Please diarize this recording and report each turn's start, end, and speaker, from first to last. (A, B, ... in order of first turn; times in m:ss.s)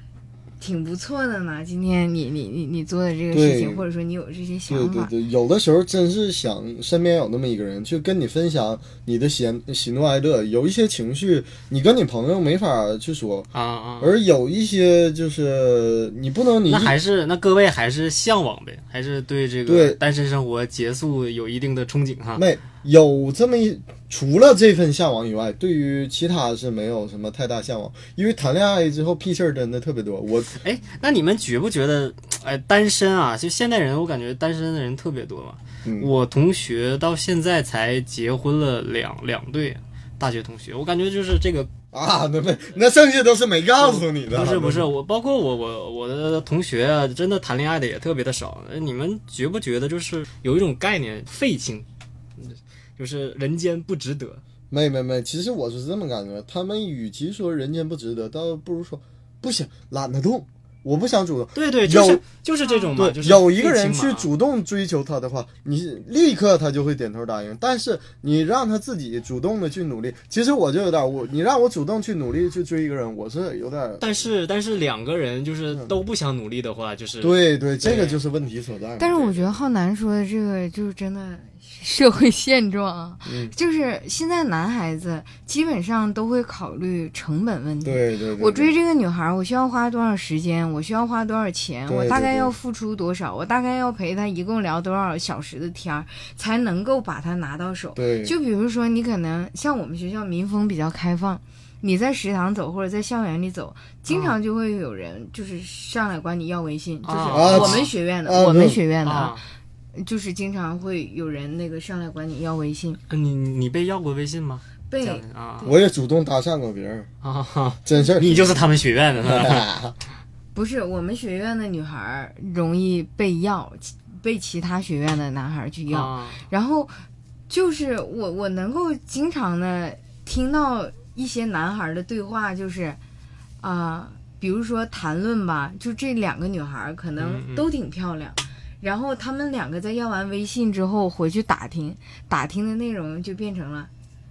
0:00.6-0:05.1 A
0:03.3-0:03.8 B
0:04.7-0:13.5 B
0:13.5-0:14.2 C
0:14.0-0:17.0 B
0:16.7-0:22.5 C
0:19.7-0:20.0 B
0:22.4-0:30.6 B
0:30.6-0:41.7 C
0:35.8-0:36.1 B
0:41.9-0:44.9 B
0:43.8-0:51.9 C
0:52.4-0:54.4 C
0:54.7-1:02.2 B
1:01.6-1:04.3 C
1:02.9-1:14.0 B
1:14.0-1:18.2 C
1:17.2-1:19.3 B
1:19.0-1:49.4 A
1:23.2-1:23.5 B
1:27.8-1:28.8 B
1:31.9-1:32.5 B
1:38.0-1:38.4 B
1:44.1-1:44.4 C
1:47.1-1:47.9 C
1:47.3-1:48.8 B
1:49.0-1:49.4 C
1:50.0-1:53.0 A
1:53.1-1:55.7 C
1:54.9-1:55.8 A
1:55.6-1:57.1 B
1:57.2-1:59.7 C
1:57.8-1:58.7 B
1:59.2-1:59.9 B
2:00.5-2:06.9 A
2:05.9-2:06.4 C
2:07.5-2:13.0 A
2:13.6-2:23.9 A
2:17.2-2:17.7 C